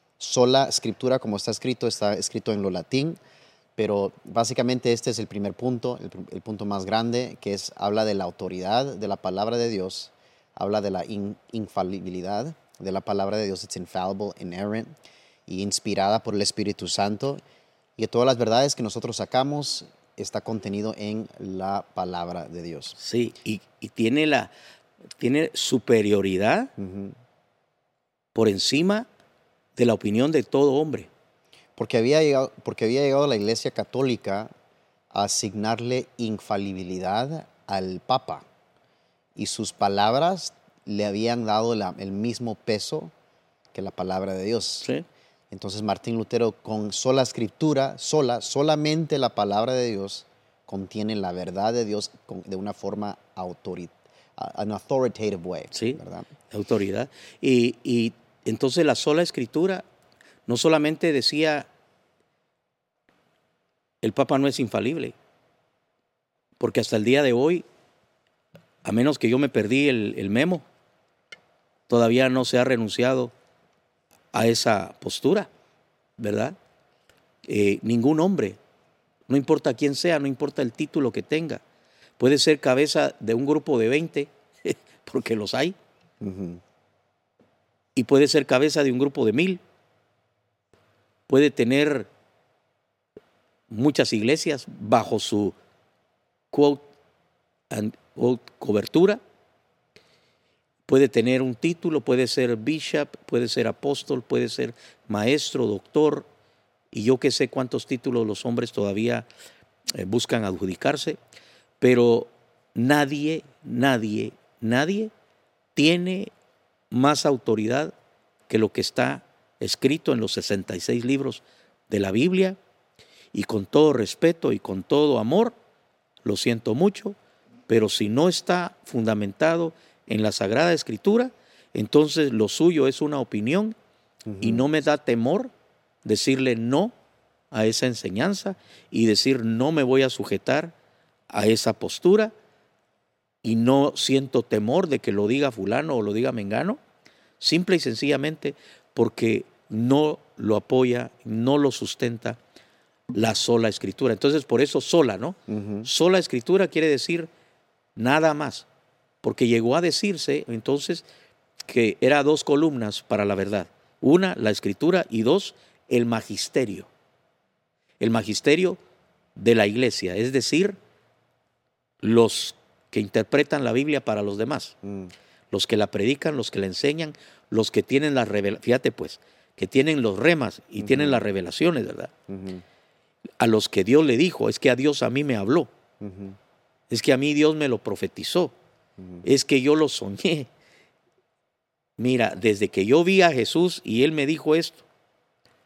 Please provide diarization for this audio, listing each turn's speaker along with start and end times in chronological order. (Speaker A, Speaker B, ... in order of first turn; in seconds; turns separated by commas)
Speaker A: 0.2-3.2, Speaker A: 3.8-14.9, Speaker A: 15.5-17.4, Speaker A: 18.0-22.9, Speaker B: 23.0-24.5, Speaker B: 25.2-26.7, Speaker A: 26.8-27.1, Speaker B: 28.3-29.1, Speaker B: 29.8-31.1, Speaker A: 31.8-34.5, Speaker A: 35.1-38.4, Speaker A: 39.4-43.1, Speaker A: 43.7-44.9, Speaker A: 45.5-56.3, Speaker B: 55.7-56.0, Speaker B: 56.5-59.9, Speaker B: 60.5-61.7, Speaker B: 64.0-65.1, Speaker B: 66.6-67.6, Speaker B: 68.8-70.7, Speaker B: 71.9-73.3, Speaker B: 74.3-75.5, Speaker B: 76.2-76.5, Speaker B: 77.5-78.6, Speaker B: 79.3-81.6, Speaker B: 82.2-85.8, Speaker A: 86.2-86.6, Speaker B: 87.9-89.6, Speaker B: 91.3-92.1, Speaker B: 93.7-95.5, Speaker B: 96.5-96.8, Speaker B: 97.7-99.2, Speaker B: 100.9-106.3, Speaker B: 106.9-109.3, Speaker B: 109.9-111.2, Speaker B: 111.8-115.1, Speaker B: 115.7-116.3, Speaker B: 116.9-117.9, Speaker B: 118.5-122.6, Speaker B: 123.3-125.5, Speaker B: 126.2-127.2, Speaker B: 127.7-133.8, Speaker A: 134.3-134.7, Speaker B: 134.4-135.5, Speaker B: 136.0-136.9, Speaker B: 137.5-140.7, Speaker B: 141.3-142.3, Speaker B: 143.4-146.8, Speaker B: 147.4-152.4, Speaker B: 153.1-157.3, Speaker A: 155.5-155.9, Speaker B: 157.9-158.7, Speaker B: 159.2-161.1, Speaker B: 161.6-166.9, Speaker B: 168.0-168.8, Speaker B: 169.3-170.8, Speaker B: 172.0-174.7, Speaker A: 174.8-175.1, Speaker B: 175.5-182.1, Speaker A: 180.8-181.2, Speaker A: 182.3-182.6, Speaker B: 183.4-185.7, Speaker A: 186.0-186.4, Speaker B: 186.9-188.5, Speaker A: 189.0-189.2, Speaker B: 189.2-190.5, Speaker B: 192.0-194.8